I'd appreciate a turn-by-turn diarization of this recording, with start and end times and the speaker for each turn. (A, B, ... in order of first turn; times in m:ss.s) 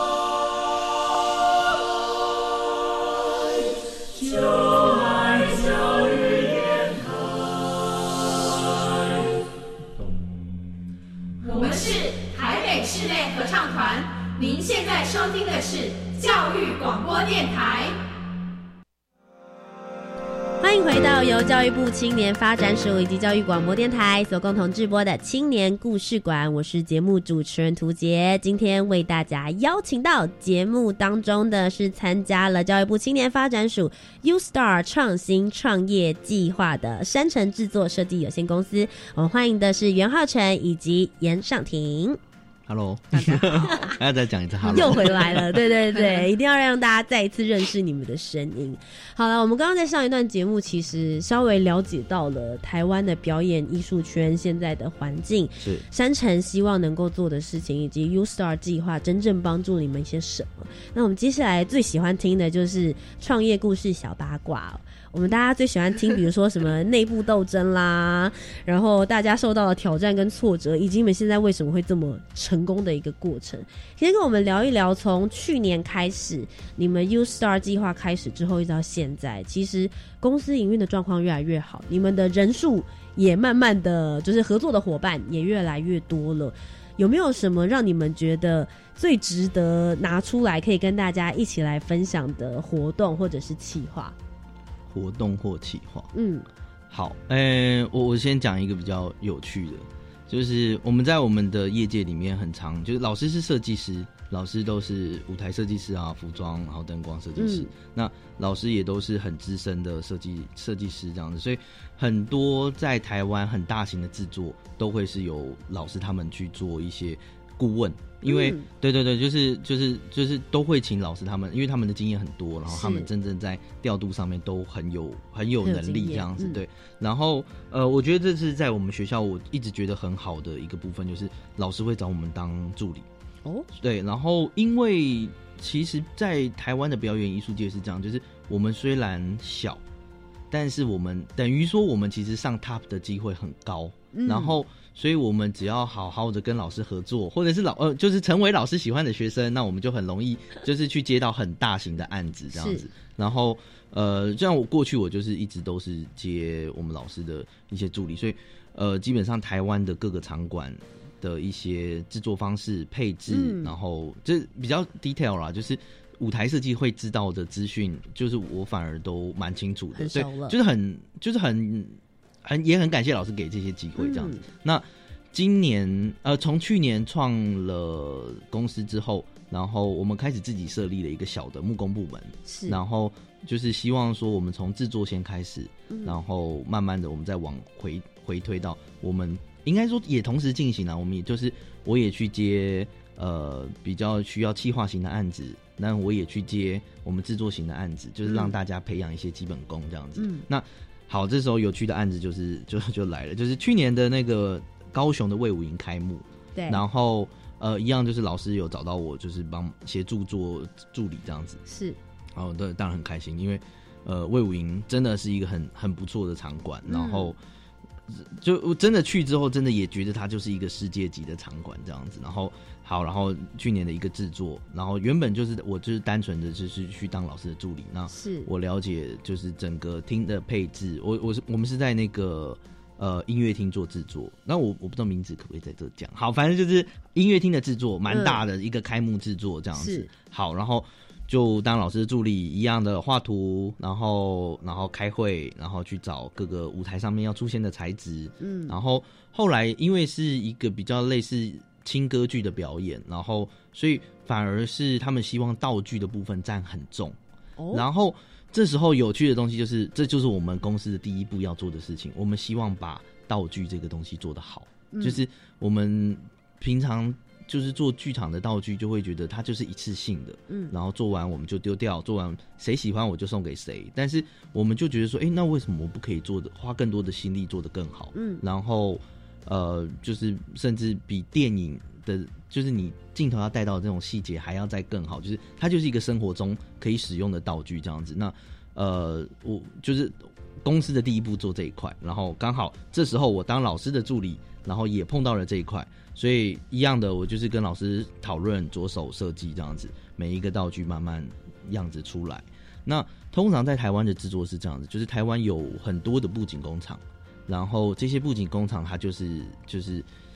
0:05.1-0:06.0 A
0:11.4-0:18.0 A
0:20.6-0:42.2 B
0:42.6-0:45.6 C
0:43.1-0:44.0 B
0:44.7-1:34.1 B
0:55.6-0:55.8 C
1:34.9-1:36.1 C
1:36.1-1:36.5 B
1:36.9-2:13.1 C
1:47.4-1:47.7 B
1:58.3-1:58.7 B
2:02.7-2:03.1 B
2:05.6-2:06.6 B
2:13.7-2:19.8 C
2:20.5-3:31.6 C
2:24.1-2:24.6 B
2:32.5-2:32.9 B
2:43.3-2:43.7 B
2:49.9-2:50.6 B
2:54.0-2:54.4 B
3:02.5-3:02.8 B
3:05.9-3:06.2 B
3:18.3-3:18.5 B
3:20.2-3:20.4 B
3:26.6-3:26.8 B
3:31.7-3:32.0 B
3:32.3-3:37.4 C
3:36.8-3:37.3 B
3:38.1-4:17.2 C
3:48.1-3:48.5 B
3:58.1-3:58.4 B
3:59.7-4:00.1 B
4:08.4-4:08.7 B
4:17.6-4:17.8 B
4:17.7-5:10.0 C
4:24.9-4:25.2 B
4:38.1-4:38.4 B